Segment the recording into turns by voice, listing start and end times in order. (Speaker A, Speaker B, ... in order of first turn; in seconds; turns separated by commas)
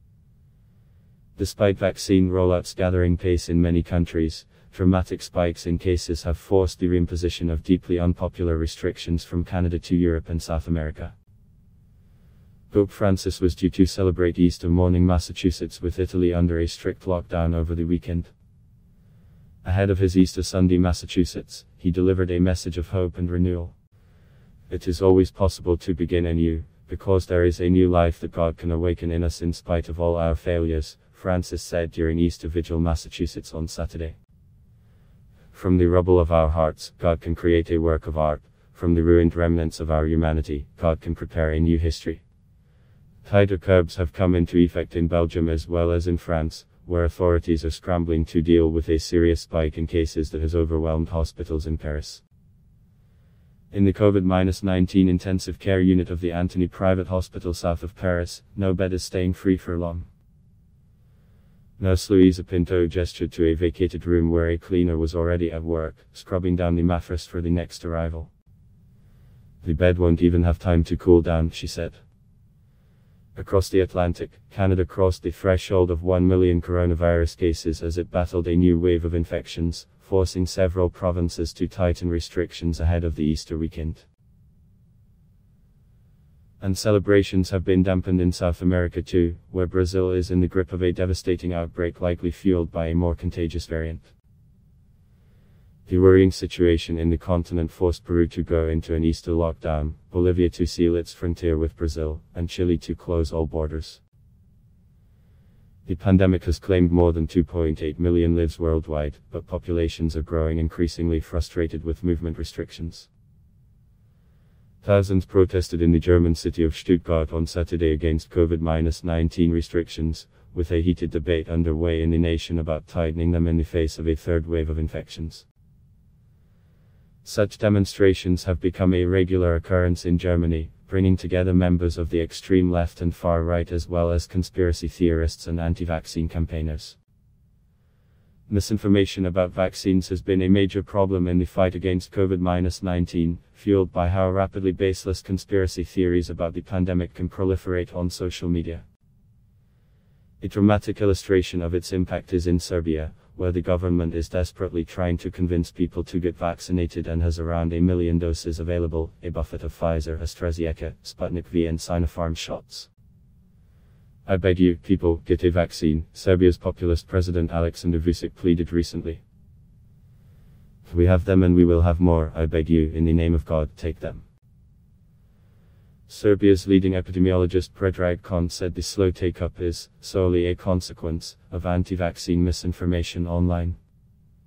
Speaker A: 1.4-11.1, Speaker A: 12.7-18.3, Speaker A: 19.6-23.8, Speaker A: 24.7-34.2, Speaker A: 35.5-42.2, Speaker A: 43.2-52.2, Speaker A: 53.7-60.1, Speaker A: 61.8-68.3, Speaker A: 69.6-72.0, Speaker A: 73.4-84.1, Speaker A: 86.6-94.1, Speaker A: 95.9-104.0, Speaker A: 105.9-113.1, Speaker A: 114.8-125.5, Speaker A: 127.2-137.0, Speaker A: 138.5-148.8, Speaker A: 150.4-162.9, Speaker A: 164.3-169.2, Speaker A: 170.9-174.3, Speaker A: 176.1-183.8